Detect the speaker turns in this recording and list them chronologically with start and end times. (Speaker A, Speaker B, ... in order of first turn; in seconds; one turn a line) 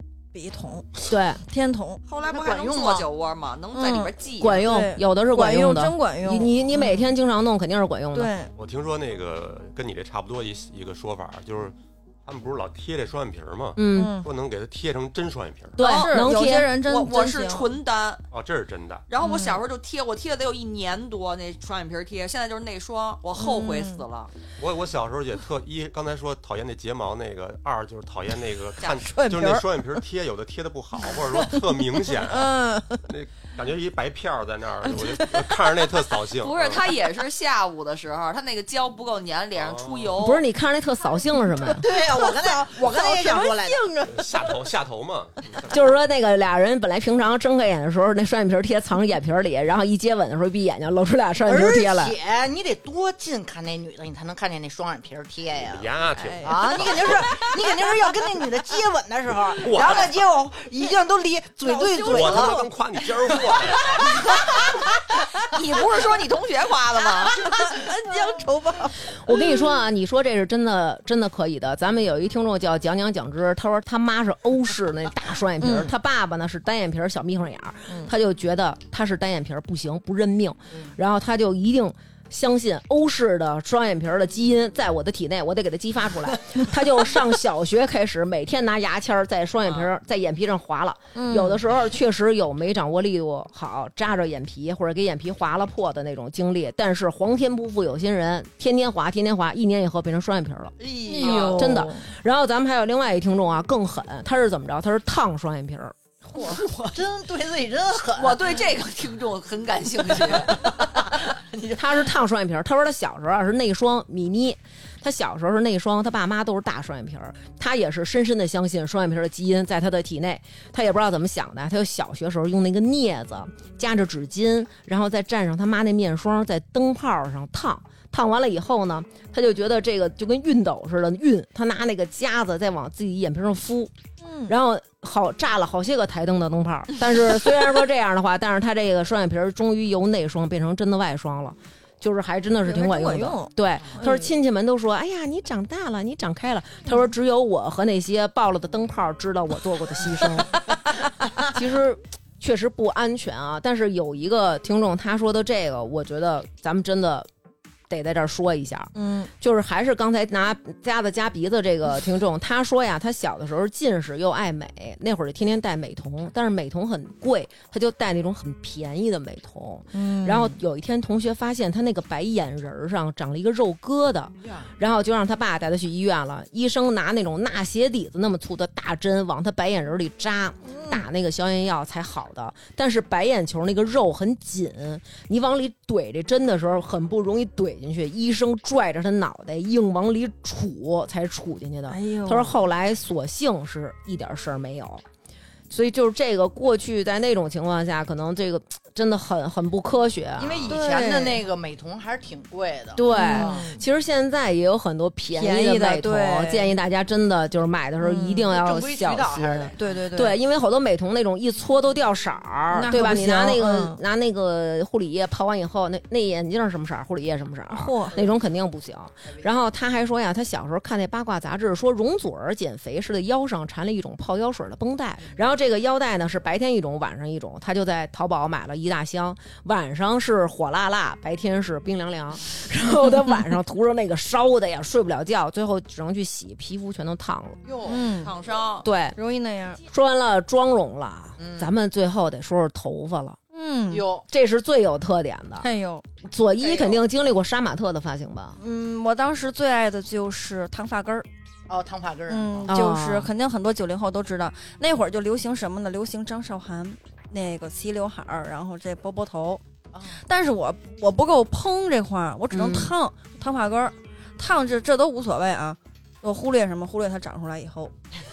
Speaker A: 0.3-2.0
Speaker B: 1.1-1.4
Speaker C: 2.1-4.7
Speaker D: 2.3-3.1
Speaker A: 3.8-7.1
Speaker B: 4.4-8.3
Speaker A: 8.1-8.5
Speaker E: 8.6-15.8
Speaker B: 13.8-14.2
Speaker A: 13.9-14.3
Speaker B: 15.8-16.7
Speaker A: 15.8-17.7
Speaker C: 15.8-16.3
Speaker C: 16.9-18.2
Speaker E: 18.3-19.1
Speaker C: 19.1-24.3
Speaker A: 19.2-19.6
Speaker A: 23.4-24.0
Speaker E: 24.6-32.5
Speaker A: 28.8-30.0
Speaker A: 31.4-33.0
Speaker E: 33.0-36.8
Speaker A: 34.9-35.6
Speaker C: 36.4-40.5
Speaker E: 39.6-40.2
Speaker B: 40.2-41.9
Speaker D: 41.7-43.9
Speaker A: 42.1-44.5
Speaker E: 44.1-46.0
Speaker B: 45.7-52.2
Speaker D: 51.5-55.9
Speaker E: 55.6-57.5
Speaker A: 56.2-57.5
Speaker D: 56.4-62.7
Speaker E: 59.6-60.2
Speaker A: 61.7-62.4
Speaker E: 62.0-64.0
Speaker D: 64.0-64.7
Speaker C: 65.4-67.5
Speaker A: 67.3-69.7
Speaker B: 69.1-100.8
Speaker A: 75.6-75.9
Speaker A: 91.2-91.6
Speaker D: 100.8-101.7
Speaker A: 101.1-102.0
Speaker C: 101.2-101.8
Speaker B: 101.5-106.0
Speaker D: 106.4-108.4
Speaker A: 106.4-106.6
Speaker C: 108.1-110.7
Speaker D: 110.2-112.0
Speaker B: 111.8-133.9
Speaker A: 134.2-134.6
Speaker B: 134.5-150.6
Speaker A: 142.6-144.3
Speaker B: 151.4-157.3
Speaker B: 157.9-195.0
Speaker A: 159.0-159.3
Speaker A: 169.9-170.6
Speaker D: 180.7-181.0
Speaker A: 191.9-192.5
Speaker B: 195.7-200.8
Speaker D: 200.4-203.7
Speaker A: 200.7-201.5
Speaker B: 202.9-237.6
Speaker A: 203.1-203.8
Speaker A: 205.3-206.8
Speaker A: 208.0-208.5
Speaker D: 208.5-209.7
Speaker A: 209.8-210.4
Speaker A: 212.7-214.0
Speaker A: 217.7-218.2
Speaker D: 237.6-238.2
Speaker A: 237.9-238.3
Speaker C: 237.9-238.9
Speaker B: 238.8-239.2
Speaker A: 239.2-239.8
Speaker B: 239.9-243.4
Speaker D: 241.4-241.7
Speaker A: 243.5-244.1
Speaker D: 243.9-244.3
Speaker B: 244.3-245.7
Speaker A: 245.6-246.1
Speaker B: 246.2-248.6
Speaker D: 246.6-247.0
Speaker A: 248.6-251.3
Speaker D: 251.7-252.7
Speaker A: 252.3-267.9
Speaker B: 252.7-253.3
Speaker D: 259.9-260.2
Speaker B: 262.5-262.9